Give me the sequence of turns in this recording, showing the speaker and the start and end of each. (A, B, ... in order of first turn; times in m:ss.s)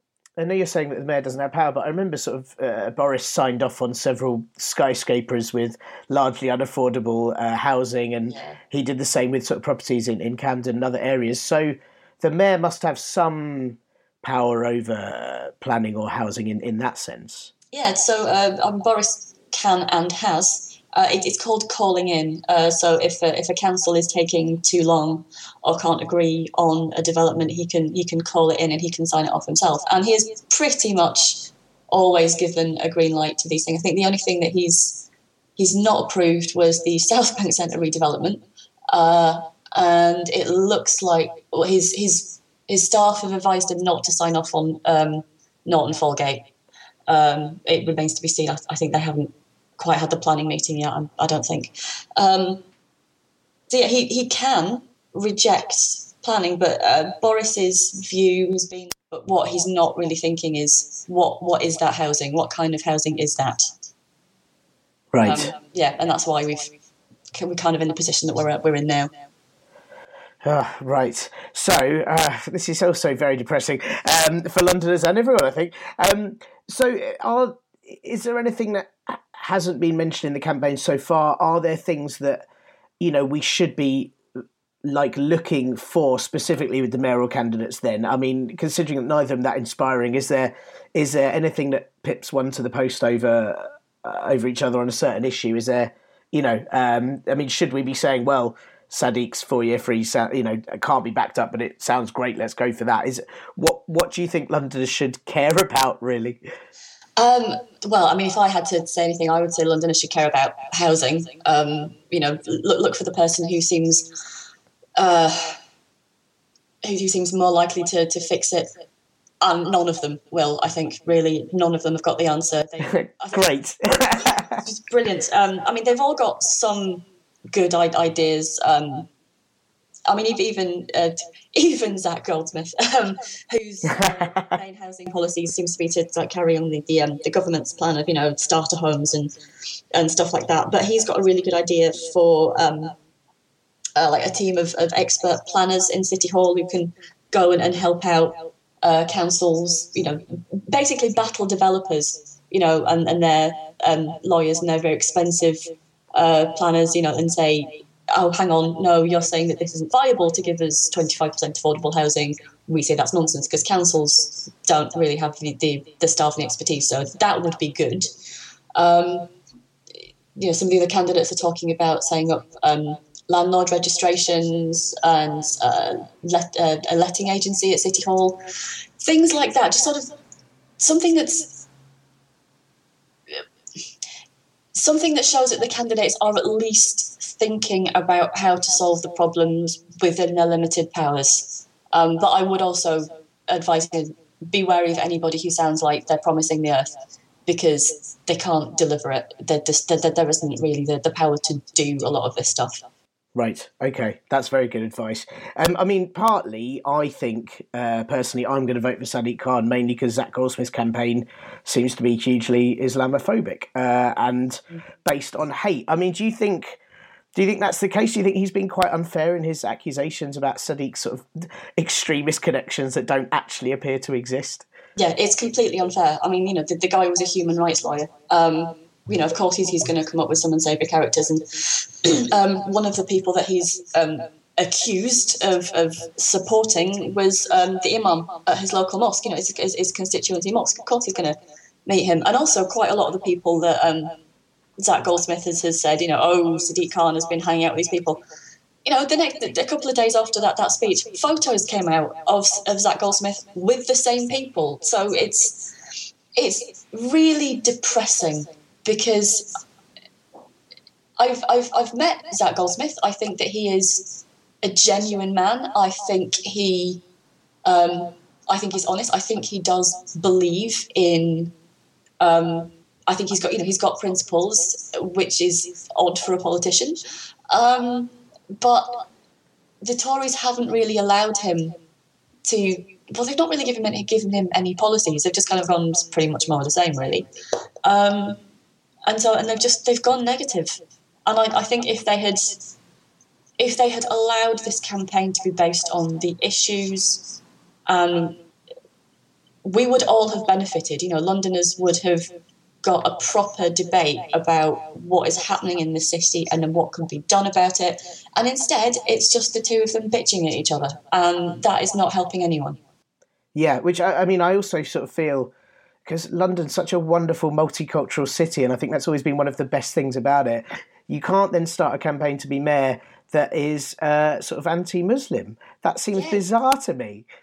0:00.4-0:17.5 A
0:08.3-0:08.6 B
0:17.7-0:35.0 B
0:35.6-0:46.5 B
0:47.1-0:52.6 B
0:53.7-1:03.7 B
1:05.1-1:05.5 A
1:05.2-1:06.7 B
1:07.3-1:09.1 B
1:10.4-1:22.5 A
1:23.0-1:24.1 A
1:24.8-1:46.4 A
1:47.2-1:54.1 B
1:55.0-1:55.6 B
1:56.8-1:58.7 B
1:59.4-2:03.5 B
2:02.9-2:04.5 A
2:04.2-2:09.1 B
2:10.1-2:19.3 B
2:19.9-2:23.0 B
2:24.0-2:48.1 B
2:48.8-2:49.3 B
2:50.4-2:58.4 B
2:59.0-3:00.2 B
3:00.8-3:01.5 B
3:04.8-3:16.9 B
3:17.5-3:22.8 B
3:23.4-3:36.8 A
3:37.4-3:44.6 A
3:45.0-4:04.2 B
4:04.8-4:08.2 B
4:08.8-4:15.6 B
4:16.4-4:19.6 B
4:21.2-4:27.0 B
4:27.6-4:31.5 B
4:32.2-4:39.1 B
4:39.8-4:41.8 B
4:42.4-4:47.3 B
4:47.8-4:48.4 B
4:49.1-4:52.7 B
4:53.6-4:57.3 B
4:57.9-4:58.4 B
4:59.6-5:12.8 B
5:13.5-5:15.5 A
5:16.1-5:27.3 A
5:26.1-5:26.4 B